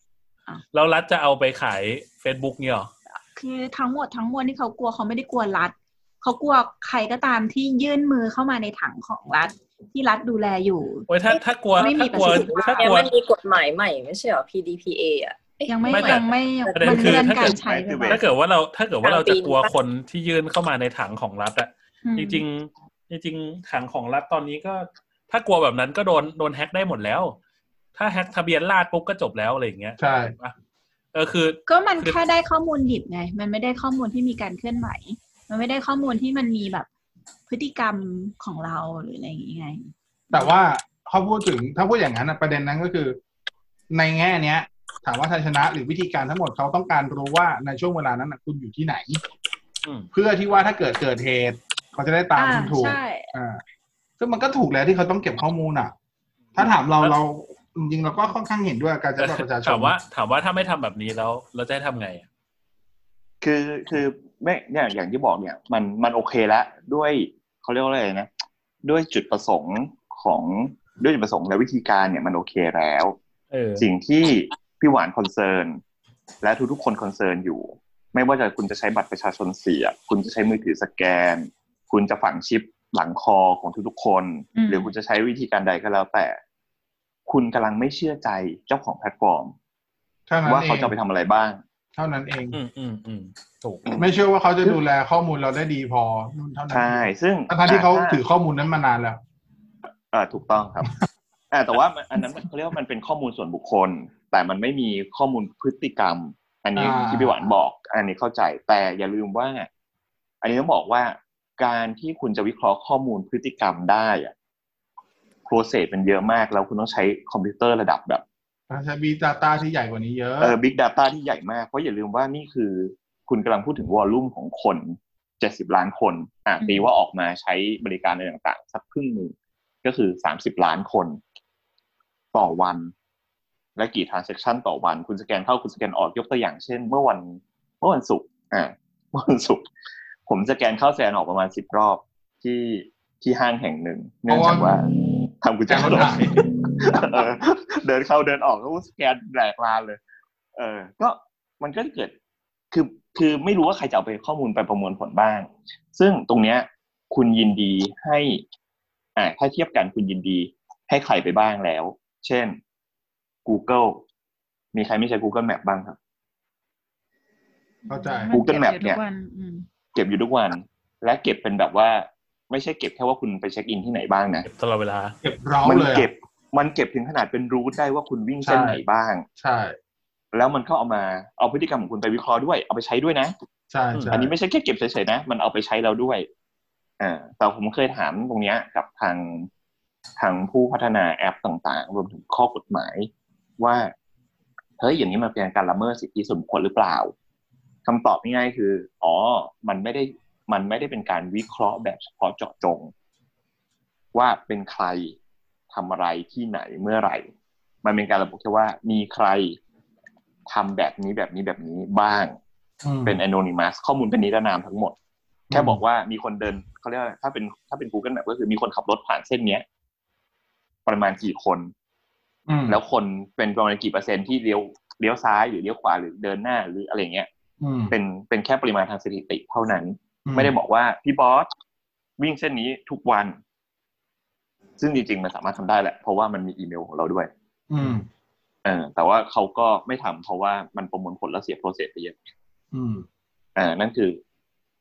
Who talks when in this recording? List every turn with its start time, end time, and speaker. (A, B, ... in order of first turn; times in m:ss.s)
0:00.7-0:02.9 A
0:03.1-0:11.1 B
0:11.1-0:13.1 A
0:11.7-0:12.9 B
0:11.8-0:16.8 C
0:15.6-0:18.2 B
0:15.9-0:27.4 A
0:16.9-0:18.2 D
0:19.0-0:19.7 C
0:22.0-0:22.4 B
0:28.0-0:30.5 A
0:30.0-0:30.4 E
0:31.1-0:32.2 A
0:31.7-0:36.9 B
0:37.5-0:40.5 B
0:40.3-0:43.2 E
0:43.9-0:49.2 E
0:49.8-0:50.1 A
0:50.1-0:53.6 E
0:52.4-0:53.3 B
0:54.2-0:55.9 E
0:56.6-0:57.2 A
0:56.6-1:00.0 E
0:59.2-1:02.2 A
1:03.4-1:08.3 D
1:08.8-1:13.2 D
1:13.5-1:13.9 A
1:13.8-1:15.8 D
1:16.4-1:26.4 D
1:24.6-1:24.9 B
1:27.3-1:29.5 D
1:30.3-1:30.9 E
1:30.4-1:31.6 D
1:32.0-1:32.6 E
1:32.5-1:33.9 A
1:34.0-1:39.2 E
1:36.7-1:38.2 D
1:40.1-1:40.9 D
1:41.5-1:49.7 D
1:46.8-1:47.5 E
1:50.4-1:54.3 D
1:55.5-1:58.2 D
1:58.7-2:00.6 E
2:00.4-2:11.2 D
2:12.3-2:12.9 D
2:13.8-2:19.7 D
2:20.3-2:24.9 D
2:24.3-2:24.8 E
2:25.4-2:30.0 D
2:25.7-2:26.4 E
2:30.6-2:32.1 D
2:32.7-2:38.4 D
2:39.2-2:42.6 D
2:43.4-2:44.0 D
2:44.7-2:46.0 D
2:47.9-2:49.6 B
2:47.9-2:48.4 E
2:48.3-2:49.0 D
2:49.9-2:54.5 D
2:54.4-2:55.2 A
2:55.2-2:56.1 E
2:55.6-2:59.3 D
2:58.4-2:58.8 E
2:59.4-2:59.8 E
3:00.3-3:03.3 D
3:03.7-3:04.3 E
3:04.1-3:06.3 D
3:07.0-3:09.5 D
3:10.2-3:13.9 D
3:14.8-3:17.1 D
3:17.9-3:22.9 D
3:24.1-3:25.2 D
3:25.7-3:27.3 D
3:27.8-3:29.6 D
3:30.5-3:32.4 D
3:32.8-3:33.2 E
3:33.1-3:35.0 D
3:35.5-3:35.8 E
3:35.5-3:39.6 D
3:40.9-3:41.7 D
3:42.5-3:42.8 E
3:42.7-3:47.3 D
3:47.6-3:48.0 E
3:47.9-3:51.5 D
3:50.3-3:50.5 E
3:52.2-3:53.4 D
3:54.8-3:57.3 D
3:57.7-3:58.1 E
3:58.6-4:02.2 D
4:02.7-4:03.0 E
4:03.6-4:04.2 D